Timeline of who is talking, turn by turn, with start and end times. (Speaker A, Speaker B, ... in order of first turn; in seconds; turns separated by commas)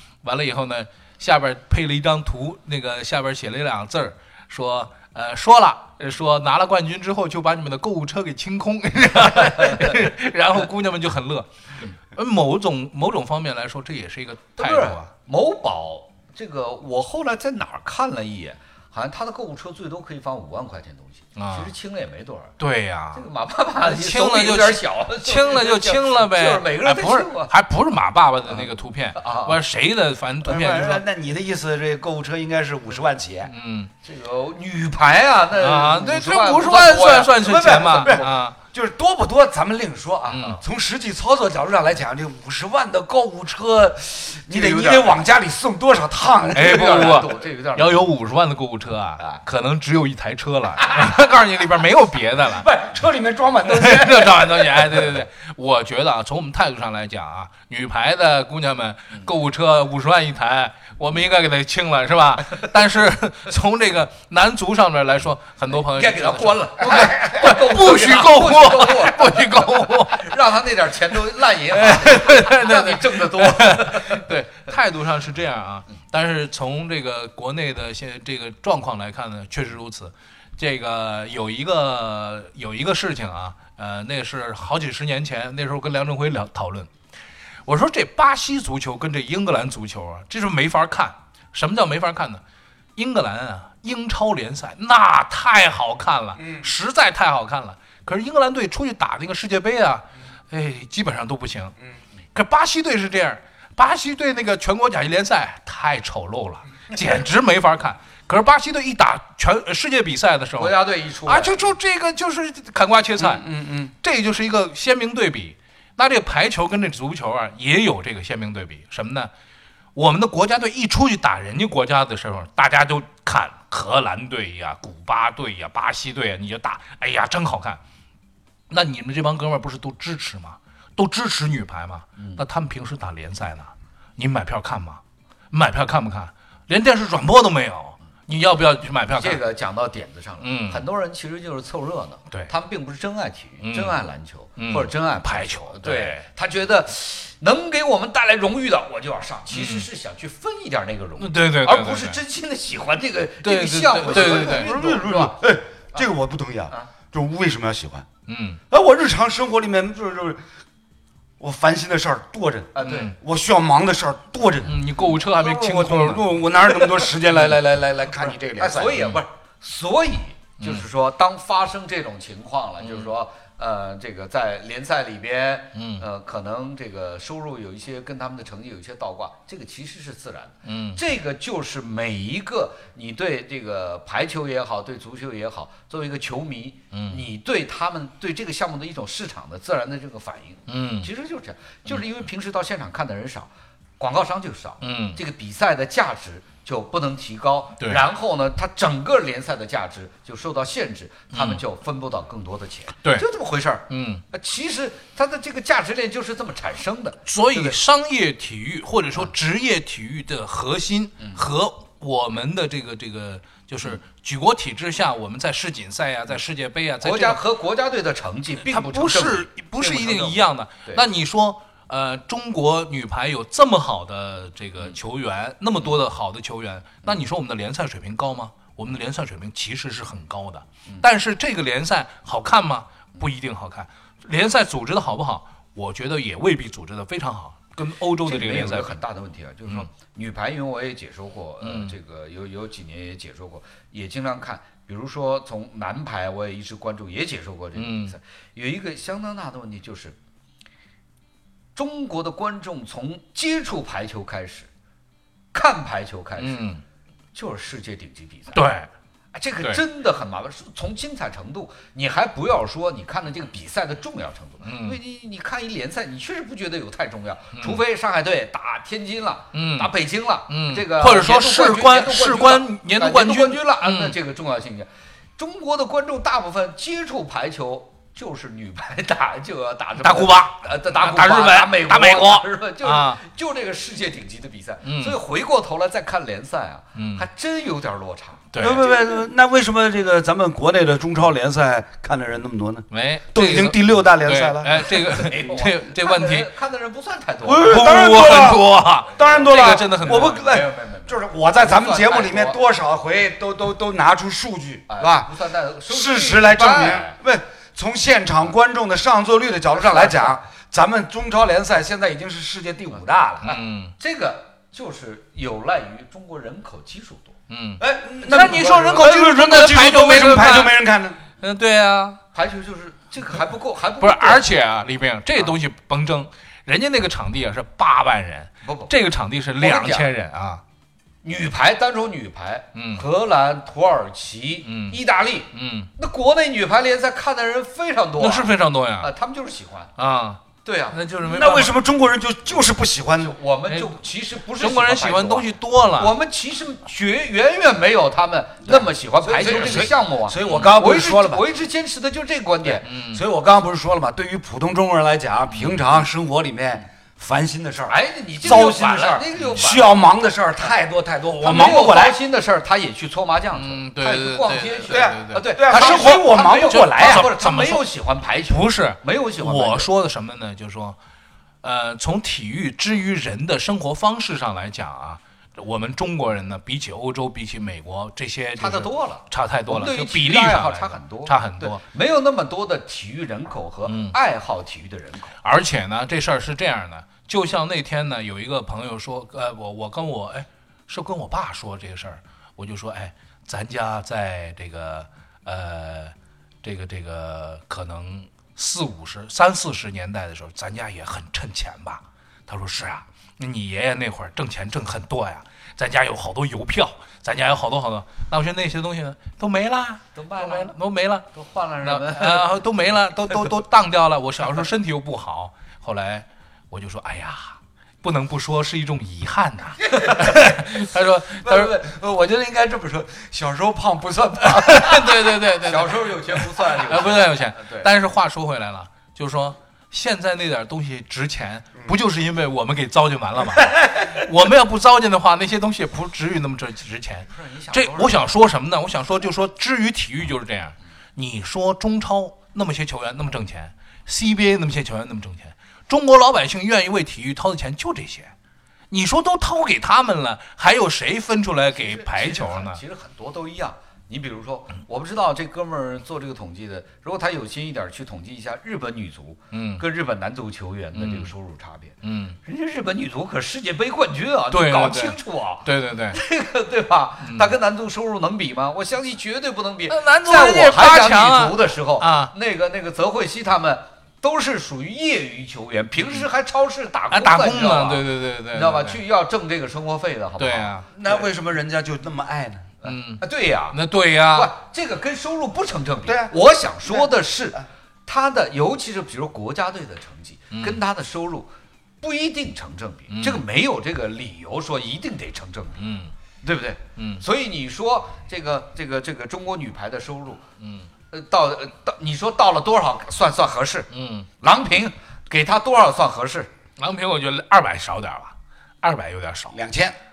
Speaker A: 0.2-15.1, Speaker B: 9.6-9.9, Speaker B: 14.6-22.6, Speaker A: 21.4-21.7, Speaker A: 22.6-23.2, Speaker B: 23.1-27.5, Speaker A: 23.8-31.0, Speaker B: 28.5-29.6, Speaker C: 30.4-33.5, Speaker A: 33.4-33.9, Speaker B: 34.0-37.6, Speaker A: 35.5-38.6, Speaker C: 37.4-47.3, Speaker A: 40.3-40.6, Speaker B: 40.3-40.6, Speaker B: 44.5-45.2, Speaker B: 46.5-48.1, Speaker A: 46.5-52.7, Speaker C: 52.4-55.1, Speaker A: 53.6-70.3, Speaker B: 65.7-74.4, Speaker A: 71.7-86.9, Speaker A: 87.7-92.4, Speaker A: 93.0-101.7, Speaker C: 96.4-96.7, Speaker A: 102.3-113.5, Speaker B: 110.5-111.7, Speaker C: 113.2-113.9, Speaker A: 114.0-119.3, Speaker A: 119.9-127.8, Speaker A: 128.7-139.4, Speaker B: 132.2-132.4, Speaker B: 139.1-155.4, Speaker A: 140.4-140.8, Speaker A: 143.6-144.0, Speaker A: 144.6-146.2, Speaker A: 149.5-149.9, Speaker A: 151.2-152.2, Speaker A: 153.4-154.7, Speaker C: 154.0-158.1, Speaker A: 158.3-158.6, Speaker C: 158.7-160.4, Speaker C: 161.4-164.8, Speaker B: 162.7-163.1, Speaker A: 162.8-163.1, Speaker A: 164.6-166.3, Speaker C: 165.3-169.0, Speaker B: 168.1-207.8, Speaker A: 168.9-169.2, Speaker A: 170.6-170.9, Speaker A: 172.8-173.1, Speaker A: 175.7-176.0, Speaker A: 180.7-181.0, Speaker A: 186.9-187.3, Speaker A: 190.7-191.1, Speaker A: 194.8-195.2, Speaker A: 197.8-198.0, Speaker A: 201.3-201.6, Speaker A: 203.9-204.2, Speaker A: 207.2-217.4, Speaker B: 211.2-211.4, Speaker B: 217.0-221.0, Speaker A: 218.6-238.9, Speaker B: 238.2-250.2, Speaker A: 241.6-241.9, Speaker A: 247.7-248.1, Speaker B: 251.7-254.7, Speaker B: 255.5-256.7, Speaker A: 256.4-256.8, Speaker B: 257.3-258.7, Speaker A: 258.5-258.9, Speaker B: 259.3-289.0, Speaker A: 264.6-265.0, Speaker A: 267.5-267.8, Speaker A: 269.5-269.9, Speaker A: 270.5-274.2, Speaker A: 280.0-283.2, Speaker A: 284.8-285.2, Speaker A: 286.9-287.2, Speaker A: 288.5-288.8, Speaker C: 288.6-295.0, Speaker A: 292.9-296.5, Speaker B: 294.8-298.0, Speaker C: 297.4-305.3, Speaker A: 297.6-300.4, Speaker B: 299.1-302.6, Speaker B: 304.9-307.1, Speaker C: 305.9-313.5, Speaker B: 309.7-310.4, Speaker B: 313.4-317.3, Speaker A: 313.4-313.9, Speaker A: 317.5-320.8, Speaker C: 317.8-321.2, Speaker A: 321.4-322.2, Speaker B: 322.3-324.6, Speaker A: 324.0-330.6, Speaker B: 328.6-328.9, Speaker B: 329.6-330.1, Speaker B: 331.2-339.9, Speaker A: 332.7-333.1, Speaker A: 334.6-335.0, Speaker A: 335.5-335.9, Speaker A: 338.2-339.1, Speaker A: 340.0-341.8, Speaker B: 340.6-341.0, Speaker C: 341.2-343.4, Speaker B: 343.2-352.9, Speaker A: 343.6-344.0, Speaker A: 344.5-346.1, Speaker C: 348.6-351.4, Speaker A: 349.4-349.9, Speaker A: 350.4-350.7, Speaker C: 352.6-362.2, Speaker A: 352.8-353.2, Speaker A: 355.5-355.8, Speaker B: 357.9-360.1, Speaker B: 361.4-369.9, Speaker A: 363.5-367.8, Speaker C: 364.9-367.3, Speaker A: 368.5-371.0, Speaker A: 371.6-381.8, Speaker B: 378.6-385.4, Speaker A: 383.9-384.1, Speaker A: 385.4-411.3, Speaker B: 410.1-410.8, Speaker B: 411.3-412.5, Speaker A: 411.8-421.8, Speaker C: 420.1-420.8, Speaker C: 421.3-425.3, Speaker A: 424.5-448.3, Speaker B: 425.6-427.9, Speaker B: 437.3-438.4, Speaker A: 448.9-452.8, Speaker B: 451.7-481.2, Speaker A: 459.5-459.8, Speaker A: 460.9-461.3, Speaker A: 462.0-462.4, Speaker A: 464.5-466.2, Speaker A: 467.2-467.5, Speaker A: 469.9-472.3, Speaker A: 475.9-476.3, Speaker A: 477.1-479.0, Speaker A: 480.4-480.9, Speaker C: 480.9-482.7, Speaker B: 482.8-495.8, Speaker A: 482.8-484.5, Speaker C: 486.0-487.6, Speaker A: 490.5-490.8, Speaker A: 493.1-493.4, Speaker A: 495.8-496.1, Speaker B: 496.4-500.4, Speaker A: 497.0-497.2, Speaker A: 500.6-500.9, Speaker B: 501.1-503.9, Speaker A: 503.9-504.3, Speaker B: 504.4-506.5, Speaker A: 506.8-509.6, Speaker C: 509.5-509.9